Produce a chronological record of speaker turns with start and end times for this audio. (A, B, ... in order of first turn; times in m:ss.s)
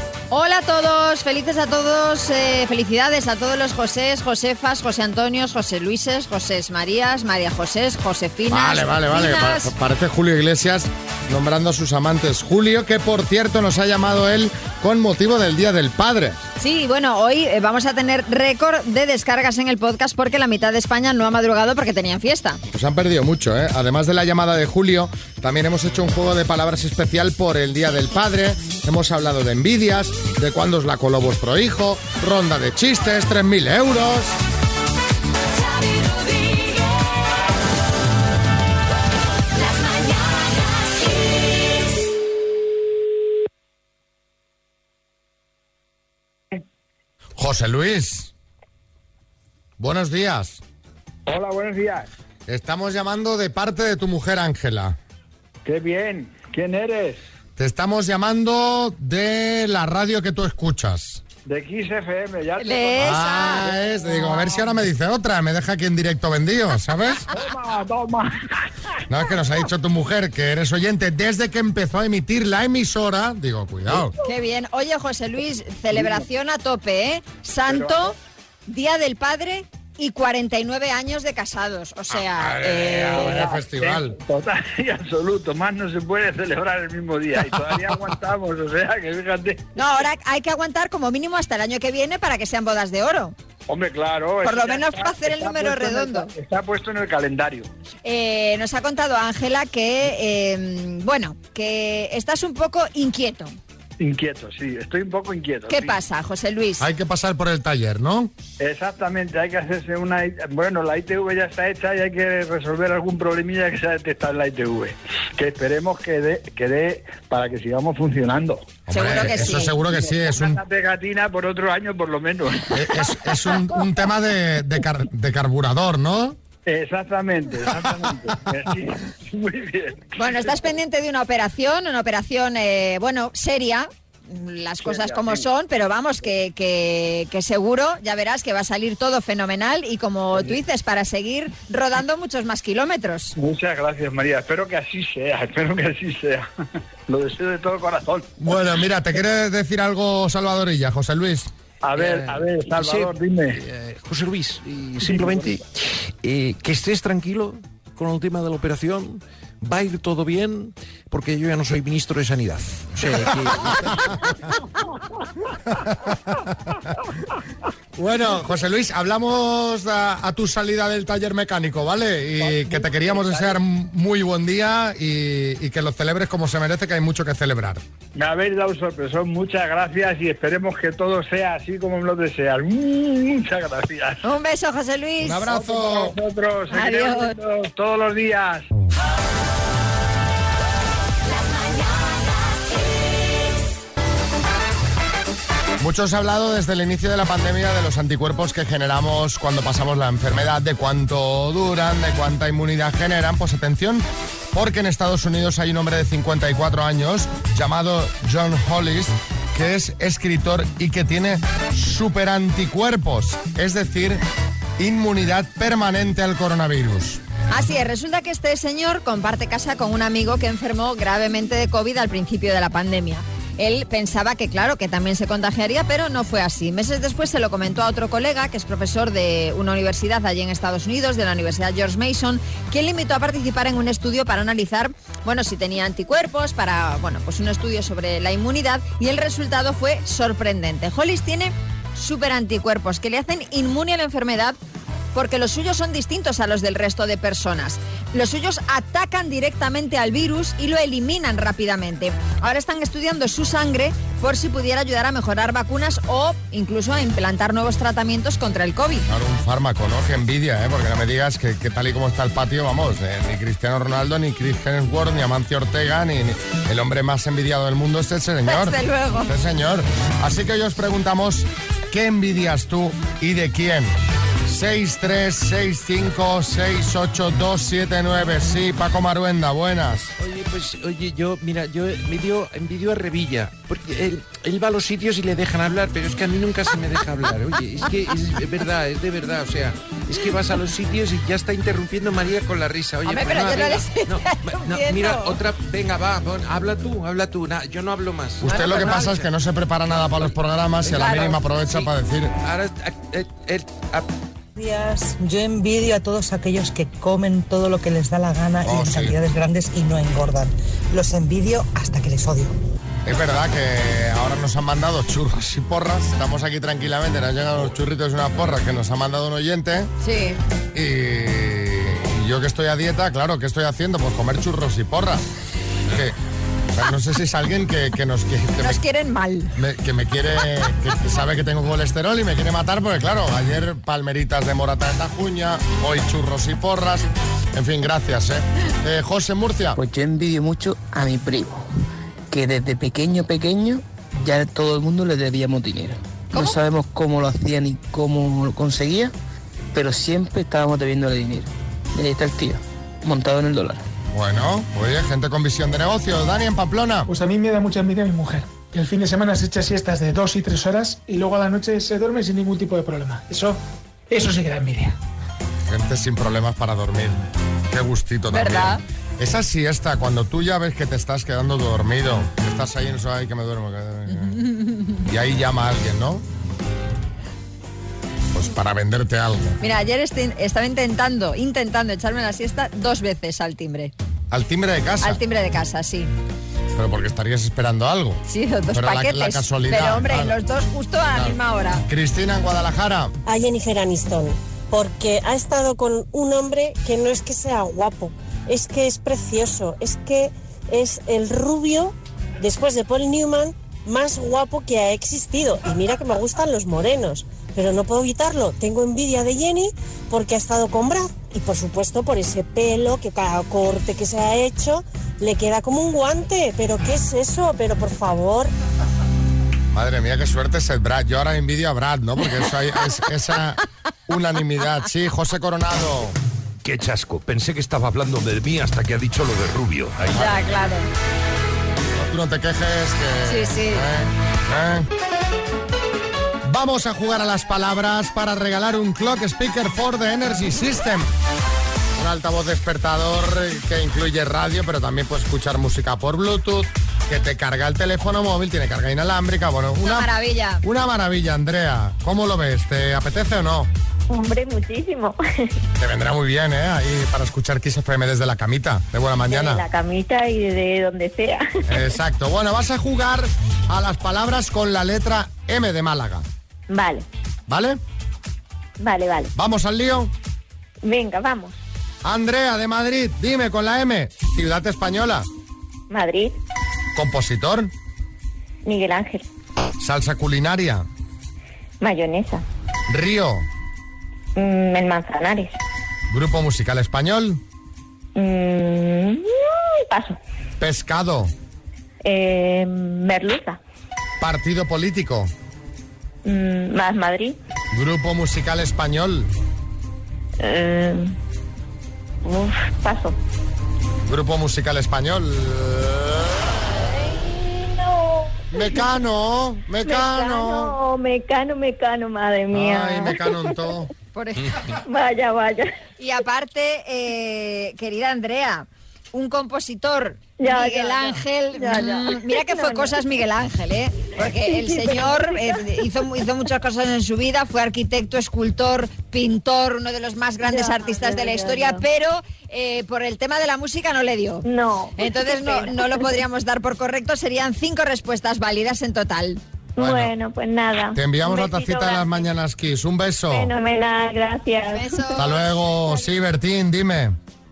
0:00.3-0:09.7 A
0:08.5-0:16.4 B
0:16.6-0:22.6 A
0:22.7-0:34.4 B
0:47.4-0:48.3 B
0:49.8-0:50.6 B
0:51.3-0:52.1 C
0:52.5-0:55.0 B
0:55.6-0:57.2 C
0:57.6-1:01.2 B
1:01.4-1:04.4 C
1:02.6-1:03.7 A
1:03.0-1:07.2 B
1:07.3-1:08.6 C
1:09.1-1:14.1 B
1:14.2-1:18.1 A
1:15.9-1:16.2 C
1:17.7-1:18.1 C
1:18.7-1:23.4 A
1:22.3-1:24.2 B
1:23.0-1:30.0 C
1:29.8-1:33.3 A
1:33.7-1:37.7 C
1:34.4-1:36.3 A
1:38.0-1:43.6 A
1:44.0-1:46.0 C
1:45.7-1:46.9 A
1:46.8-1:48.3 B
1:48.6-2:02.7 C
1:58.9-1:59.8 A
1:58.9-2:00.6 B
2:02.7-2:06.4 B
2:06.6-2:10.7 C
2:10.2-2:23.3 A
2:14.8-2:15.4 C
2:23.3-2:26.5 C
2:27.1-2:28.3 C
2:28.4-2:31.5 B
2:31.8-2:33.6 C
2:32.0-2:35.6 D
2:35.0-2:35.5 C
2:36.2-2:43.9 D
2:48.0-2:57.8 B
2:52.4-2:53.6 C
2:58.1-3:04.2 C
3:04.2-3:05.4 A
3:05.2-3:06.2 B
3:05.4-3:08.7 C
3:06.7-3:07.3 A
3:15.8-3:34.2 B
3:34.8-3:37.2 B
3:37.5-4:04.6 A
4:05.1-4:19.1 A
4:19.1-4:33.9 B
4:28.4-4:29.3 A
4:34.5-4:40.1 B
4:40.2-4:59.3 D
4:53.0-4:55.4 A
4:58.4-5:02.3 B
4:58.4-4:59.1 A
5:00.9-5:01.9 D
5:00.9-5:01.4 A
5:02.4-5:04.1 D
5:04.6-5:12.5 E
5:08.6-5:09.2 B
5:13.0-5:19.9 B
5:20.0-5:20.4 A
5:20.7-5:25.2 B
5:25.9-5:26.2 B
5:26.8-5:28.8 B
5:28.6-5:29.5 A
5:29.6-5:39.8 B
5:39.7-5:41.6 F
5:42.3-5:49.1 F
5:49.7-5:53.8 F
5:54.1-5:57.1 B
5:57.1-6:05.0 G
6:05.7-6:14.5 B
6:08.3-6:08.8 A
6:15.0-6:16.2 B
6:18.3-6:19.6 B
6:19.6-6:23.9 A
6:24.3-6:25.2 B
6:25.0-6:26.1 A
6:26.8-6:28.2 B
6:28.3-6:31.8 A
6:28.7-6:30.4 B
6:31.9-6:33.1 B
6:33.2-6:58.5 H
6:59.7-7:06.2 B
7:06.6-7:10.3 I
7:10.1-7:10.9 A
7:11.9-7:14.9 B
7:13.3-7:13.8 A
7:16.4-7:21.1 B
7:22.0-7:30.1 B
7:29.8-7:30.6 A
7:30.6-7:33.7 B
7:34.1-7:35.5 J
7:35.8-7:39.6 B
7:39.3-7:41.8 J
7:41.7-7:46.2 B
7:46.7-7:47.0 J
7:47.5-7:47.8 B
7:48.8-7:49.3 J
7:49.3-7:50.1 B
7:50.8-7:51.6 J
7:52.0-7:55.3 B
7:55.9-7:56.4 J
7:57.0-7:57.7 B
7:58.6-7:59.2 J
7:59.8-8:00.9 B
8:01.8-8:02.4 J
8:02.9-8:03.4 B
8:04.4-8:05.6 J
8:06.1-8:07.4 B
8:08.2-8:10.2 J
8:10.6-8:11.3 B
8:12.0-8:13.6 J
8:14.2-8:15.3 B
8:16.2-8:17.4 J
8:17.7-8:19.3 B
8:20.4-8:21.2 J
8:22.2-8:23.2 J
8:24.0-8:26.3 B
8:26.7-8:28.8 J
8:28.5-8:30.7 B
8:29.8-8:33.5 J
8:32.5-8:33.9 B
8:34.1-8:34.6 A
8:34.8-8:35.7 J
8:36.0-8:59.4 A
8:40.4-8:43.0 J
8:44.2-8:45.8 J
8:50.4-8:51.8 J
8:54.4-8:56.1 J
8:59.8-9:02.2 J
8:59.8-9:00.1 B
9:00.9-9:03.5 B
9:03.3-9:05.4 J
9:04.7-9:05.5 A
9:05.2-9:07.2 B